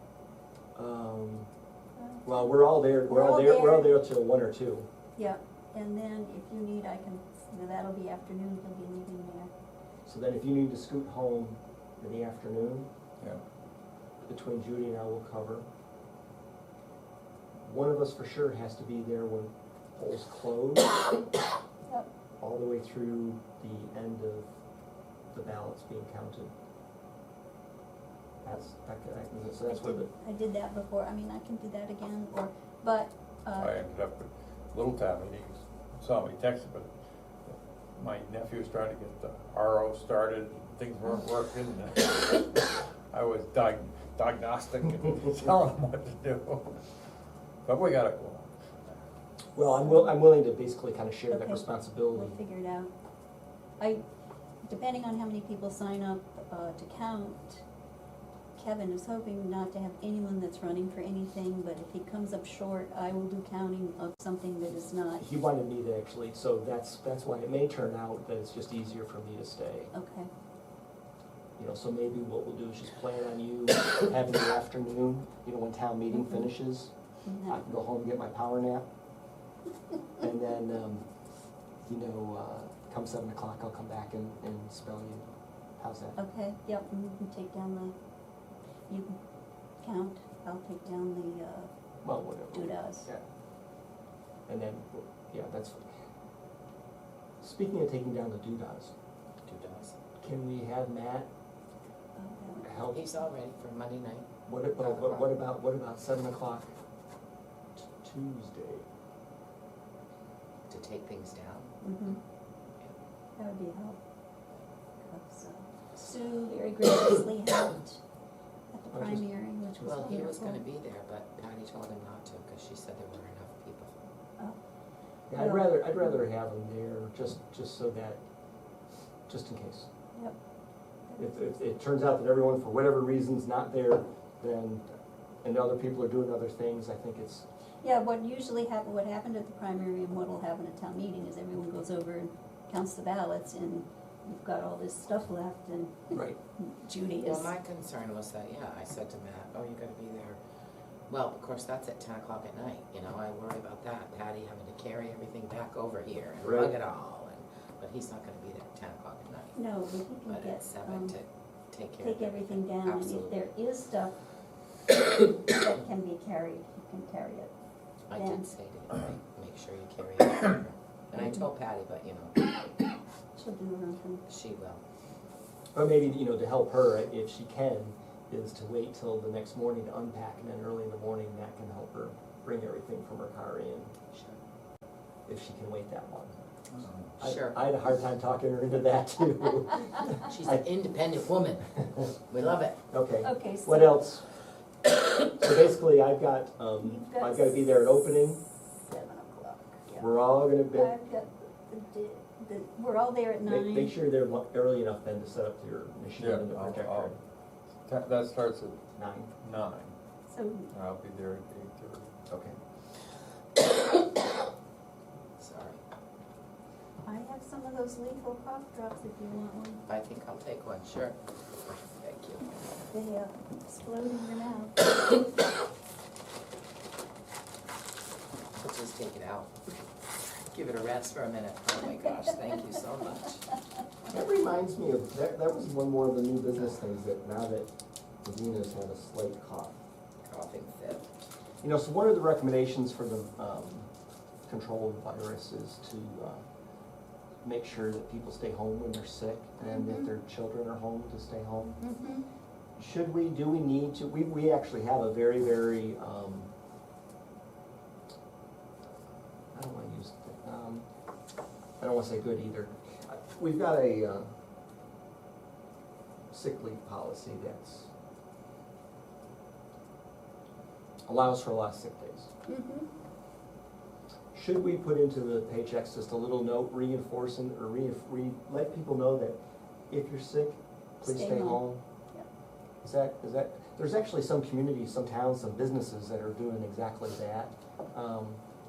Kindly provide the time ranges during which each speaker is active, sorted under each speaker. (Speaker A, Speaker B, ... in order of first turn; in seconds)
Speaker A: 0.8-1.5, 2.2-4.9, 10.1-12.9, 14.3-15.7, 17.6-21.0, 22.4-24.5, 25.3-26.5, 28.4-30.1, 49.5-52.4, 65.2-69.9, 71.6-76.9, 77.5-78.9, 80.2-81.1, 81.8-85.3, 85.8-86.2, 92.0-93.2, 94.5-95.9, 97.4-98.9, 100.2-101.3, 102.6-103.0, 104.5-106.7, 107.9-108.9, 118.9-119.3, 119.8-120.2, 125.3-128.2, 129.3-129.9, 131.2-134.9, 135.4-137.5, 146.1-146.4, 156.4-156.7, 175.8-183.9, 185.3-186.4, 187.2-190.6, 192.9-194.3, 195.2-198.4, 200.0-200.9, 203.4-207.2, 209.0-209.3, 212.3-212.6, 234.1-239.8, 241.6-243.9, 244.5-246.4, 247.4-251.8, 252.8-256.5, 259.5-260.9, 261.8-264.3, 266.3-267.9, 271.1-272.3, 274.3-279.4, 279.9-281.8, 282.8-288.4
Speaker B: 2.0-2.4, 3.1-4.0, 5.2-9.5, 29.7-33.8, 51.3-52.9, 54.6-57.6, 58.6-65.2, 69.9-70.3, 76.2-76.5, 77.2-77.6, 86.2-87.9, 88.9-89.2, 89.8-91.7, 92.5-93.1, 102.2-103.0, 111.8-112.2, 113.4-114.0, 115.0-118.0, 118.7-120.6, 125.4-125.7, 137.8-147.6, 159.6-161.2, 162.0-164.2, 165.1-167.5, 168.1-168.5, 173.4-174.2, 193.2-194.0, 196.8-197.6, 198.9-200.1, 200.7-203.9, 210.3-210.7, 217.0-219.8, 222.9-224.9, 231.9-232.6, 249.7-250.1, 251.8-252.3, 272.5-272.9, 281.0-281.6
Speaker C: 33.5-36.9, 37.5-46.8, 47.6-48.5, 206.2-207.2, 207.8-208.8, 209.4-209.9, 210.7-212.2
Speaker D: 99.5-100.0, 102.9-105.3, 110.7-111.7, 119.8-123.9, 147.2-150.4, 151.1-159.6, 160.3-163.3, 168.1-172.8, 174.3-174.8, 184.1-184.4, 186.7-187.6, 190.3-192.8, 215.4-215.8, 219.9-222.5, 228.6-229.8, 230.5-233.4, 240.2-241.1